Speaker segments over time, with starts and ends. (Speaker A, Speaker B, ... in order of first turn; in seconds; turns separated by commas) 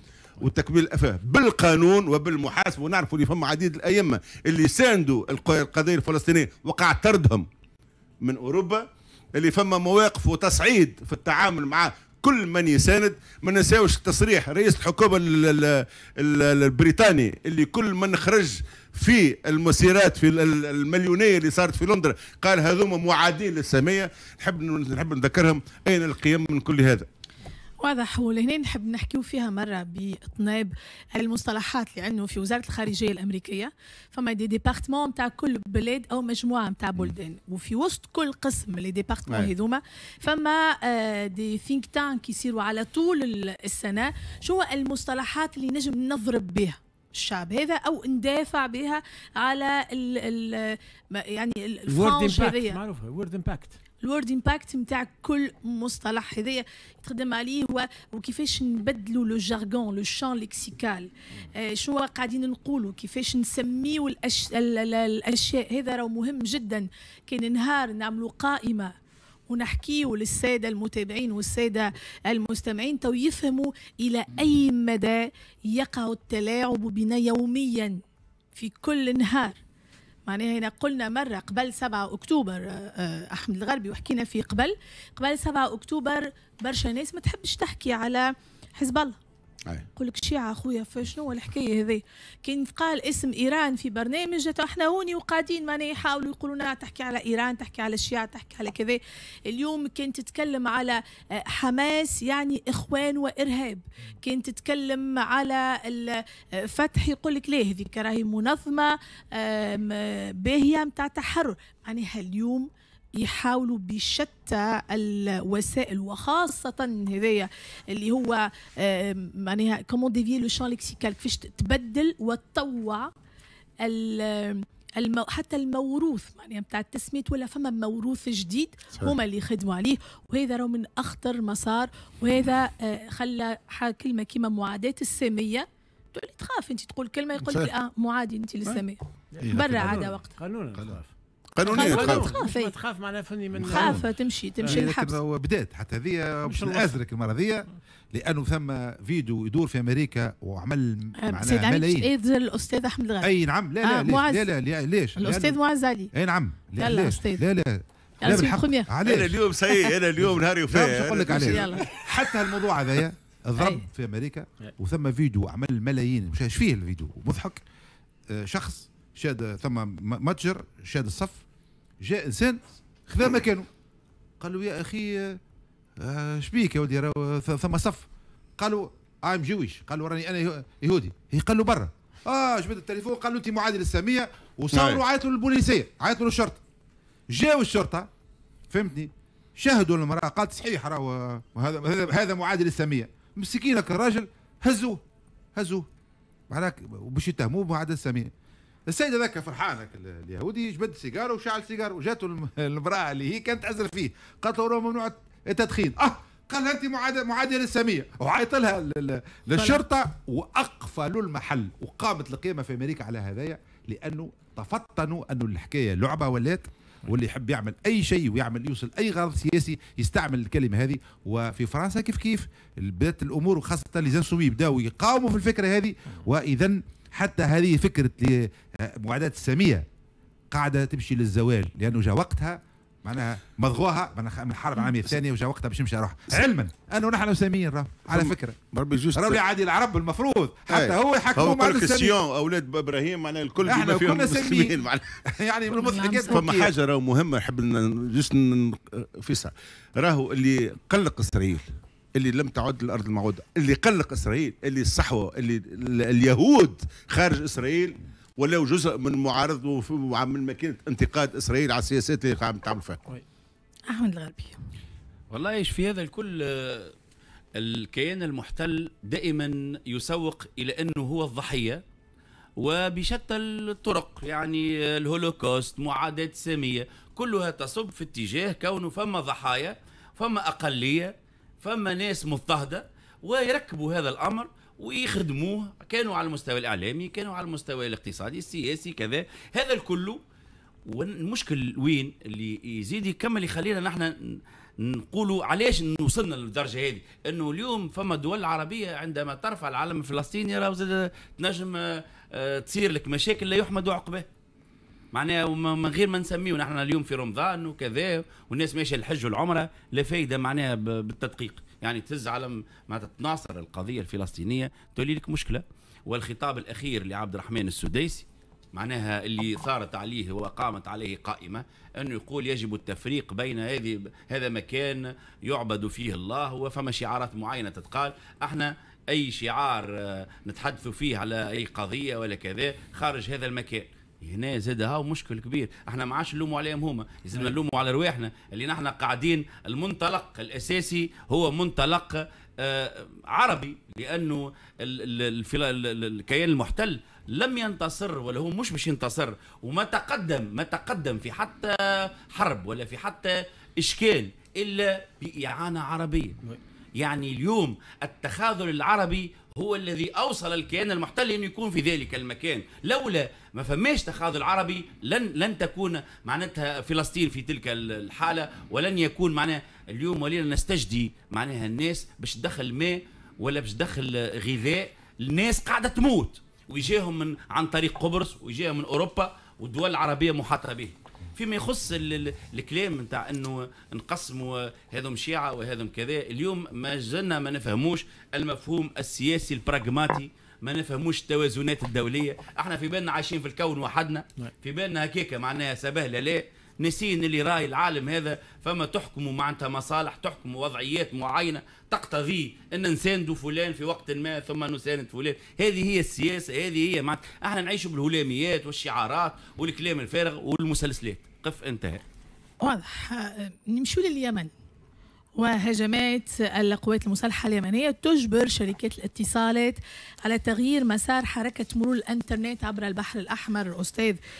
Speaker A: 0.4-7.5, Speaker A: 8.2-8.8, Speaker A: 9.3-27.1, Speaker B: 27.8-52.8, Speaker C: 51.9-53.8, Speaker B: 54.0-68.9, Speaker B: 69.5-78.0, Speaker B: 78.5-79.6, Speaker B: 80.3-89.2, Speaker B: 90.0-123.1, Speaker B: 123.8-140.3, Speaker C: 139.3-141.1, Speaker D: 139.4-140.0, Speaker A: 141.6-142.3, Speaker B: 141.6-142.7, Speaker C: 141.7-144.0, Speaker D: 143.5-144.0, Speaker B: 143.7-145.2, Speaker D: 144.6-152.1, Speaker C: 146.5-147.0, Speaker B: 151.2-153.3, Speaker D: 153.2-155.6, Speaker B: 153.8-154.5, Speaker B: 155.2-156.1, Speaker D: 156.1-159.4, Speaker B: 156.8-157.4, Speaker B: 158.2-158.9, Speaker A: 159.0-161.8, Speaker D: 160.7-167.6, Speaker B: 161.3-161.9, Speaker B: 163.6-163.8, Speaker D: 168.3-171.4, Speaker D: 172.0-173.7, Speaker D: 174.4-175.4, Speaker D: 176.0-186.6, Speaker A: 184.7-185.0, Speaker D: 187.3-188.1, Speaker D: 188.7-195.0, Speaker D: 195.5-195.9, Speaker D: 196.5-198.3, Speaker D: 198.9-229.8, Speaker B: 209.5-209.8, Speaker D: 230.5-238.6, Speaker A: 238.1-239.4, Speaker D: 239.1-242.1, Speaker A: 240.7-245.1, Speaker D: 243.6-246.7, Speaker B: 245.7-246.4, Speaker A: 246.3-263.0, Speaker B: 263.9-264.6, Speaker E: 265.3-266.9, Speaker E: 267.6-271.8, Speaker E: 272.6-290.2, Speaker E: 290.9-304.3, Speaker E: 305.1-356.4, Speaker E: 357.0-412.0, Speaker B: 412.6-414.5, Speaker B: 415.4-424.2